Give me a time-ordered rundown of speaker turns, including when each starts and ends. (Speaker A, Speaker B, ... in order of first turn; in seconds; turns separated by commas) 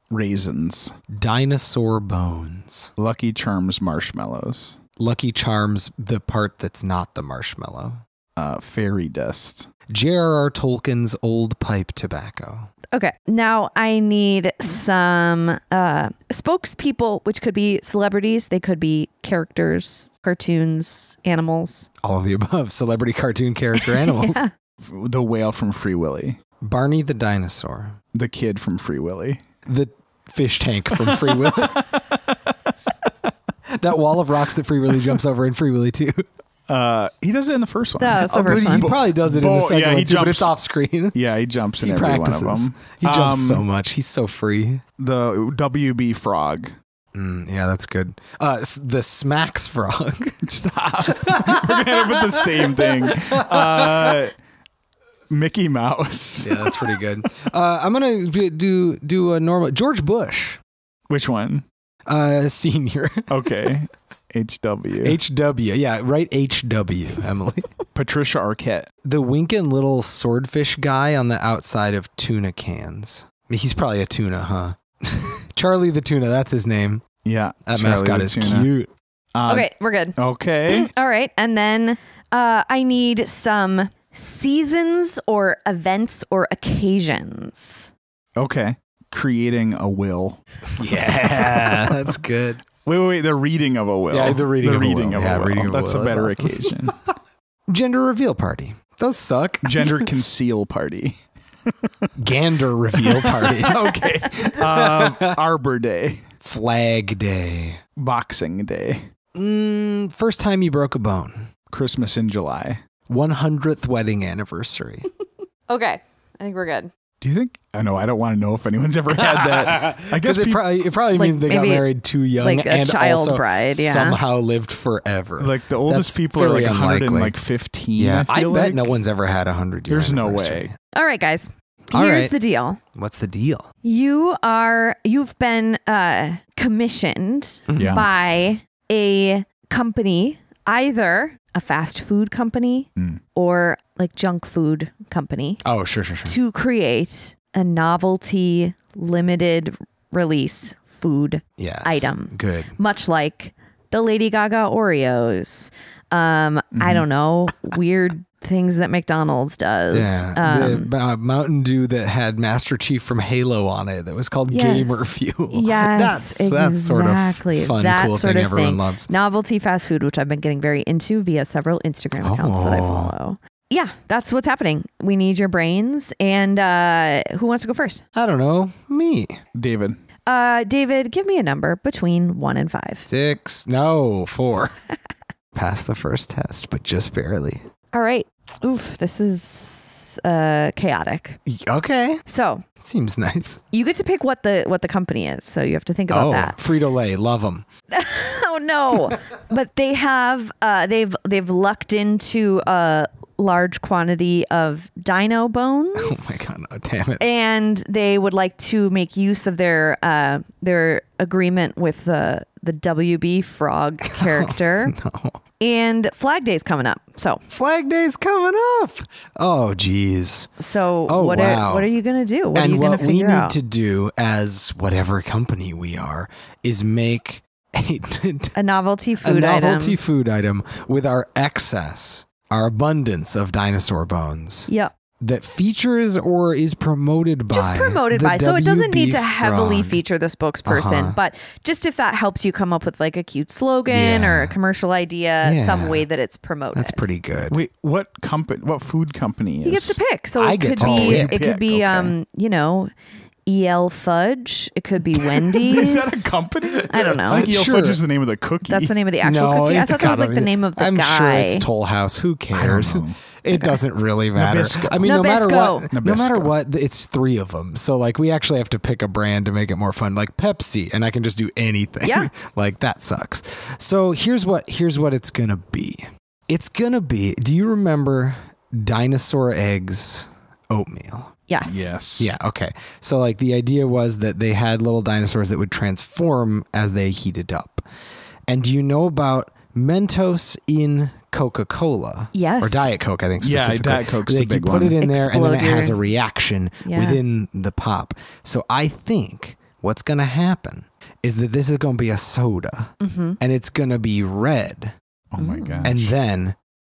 Speaker A: 0.1-0.9, Speaker B: 1.1-2.9, Speaker A: 3.0-4.8, Speaker B: 5.0-8.0, Speaker A: 8.4-9.7, Speaker B: 9.9-12.7, Speaker C: 12.9-21.9, Speaker B: 22.0-24.4, Speaker C: 23.8-24.5, Speaker A: 24.8-26.4, Speaker B: 26.6-28.0, Speaker A: 28.1-29.4, Speaker B: 29.7-31.9, Speaker A: 31.0-32.5, Speaker B: 33.8-36.3, Speaker A: 36.7-40.5, Speaker C: 38.0-38.9, Speaker B: 38.3-41.2, Speaker A: 41.1-43.6, Speaker B: 41.8-44.8, Speaker A: 45.0-46.7, Speaker B: 47.1-50.4, Speaker A: 50.4-54.4, Speaker B: 51.1-54.2, Speaker A: 55.3-57.0, Speaker B: 56.4-60.6, Speaker A: 61.1-61.7, Speaker B: 62.1-63.7, Speaker A: 63.3-65.2, Speaker B: 65.0-67.7, Speaker A: 68.0-68.9, Speaker B: 69.0-77.0, Speaker A: 77.2-78.7, Speaker B: 77.7-78.9, Speaker A: 79.3-80.9, Speaker C: 79.5-80.2, Speaker C: 80.7-87.9, Speaker A: 88.4-90.4, Speaker B: 90.8-92.6, Speaker A: 92.8-97.0, Speaker B: 94.1-97.0, Speaker B: 97.7-100.1, Speaker A: 99.6-102.1, Speaker B: 102.2-103.9, Speaker A: 103.0-106.2, Speaker B: 104.5-105.4, Speaker B: 106.4-107.8, Speaker A: 108.0-109.0, Speaker B: 109.3-111.5, Speaker A: 111.7-112.8, Speaker B: 113.1-115.1, Speaker C: 115.7-116.9, Speaker A: 117.2-120.6, Speaker B: 119.1-127.3, Speaker C: 121.1-121.9, Speaker C: 122.4-124.2, Speaker A: 125.4-128.9, Speaker B: 128.0-130.8, Speaker A: 129.9-130.7, Speaker C: 130.9-132.8, Speaker B: 131.9-132.3, Speaker B: 132.9-133.7, Speaker C: 133.8-145.6, Speaker B: 137.7-138.0, Speaker A: 137.8-138.1, Speaker B: 145.7-146.4, Speaker C: 146.2-160.9, Speaker B: 151.6-152.8, Speaker A: 156.8-157.1, Speaker B: 159.9-169.1, Speaker C: 164.5-178.0, Speaker B: 172.2-173.1, Speaker B: 178.2-179.4, Speaker A: 179.6-180.0, Speaker C: 180.3-183.1, Speaker B: 183.1-184.7, Speaker B: 185.5-187.6, Speaker C: 187.9-191.4, Speaker B: 191.5-192.2, Speaker C: 192.3-192.7, Speaker B: 192.8-193.6, Speaker C: 193.7-196.6, Speaker B: 196.1-197.7, Speaker C: 197.9-206.5, Speaker B: 206.0-207.2, Speaker C: 207.2-214.9, Speaker B: 214.2-215.4, Speaker C: 215.6-217.4, Speaker B: 217.5-220.5, Speaker C: 220.6-223.6, Speaker B: 221.1-221.9, Speaker B: 222.5-228.6, Speaker C: 228.6-230.0, Speaker B: 229.2-240.0, Speaker C: 237.5-247.0, Speaker B: 240.7-241.2, Speaker B: 243.9-244.6, Speaker B: 245.4-246.1, Speaker B: 246.7-247.6, Speaker A: 247.5-250.0, Speaker C: 249.6-252.9, Speaker B: 250.4-251.4, Speaker A: 250.8-252.1, Speaker C: 253.5-256.3, Speaker A: 255.2-258.9, Speaker C: 256.9-257.5, Speaker B: 257.3-258.0, Speaker C: 258.7-261.7, Speaker B: 259.2-281.3, Speaker A: 262.5-263.2, Speaker C: 263.5-263.8, Speaker A: 264.4-265.1, Speaker C: 265.0-265.9, Speaker A: 265.9-266.5, Speaker C: 272.0-272.3, Speaker C: 281.5-281.9, Speaker A: 281.6-282.3, Speaker B: 282.2-287.9, Speaker B: 288.5-304.9, Speaker C: 292.3-292.9, Speaker A: 293.4-295.0, Speaker C: 295.0-296.0, Speaker C: 296.9-297.2, Speaker C: 303.0-303.4, Speaker A: 305.3-306.1, Speaker C: 305.4-305.9, Speaker B: 305.8-306.6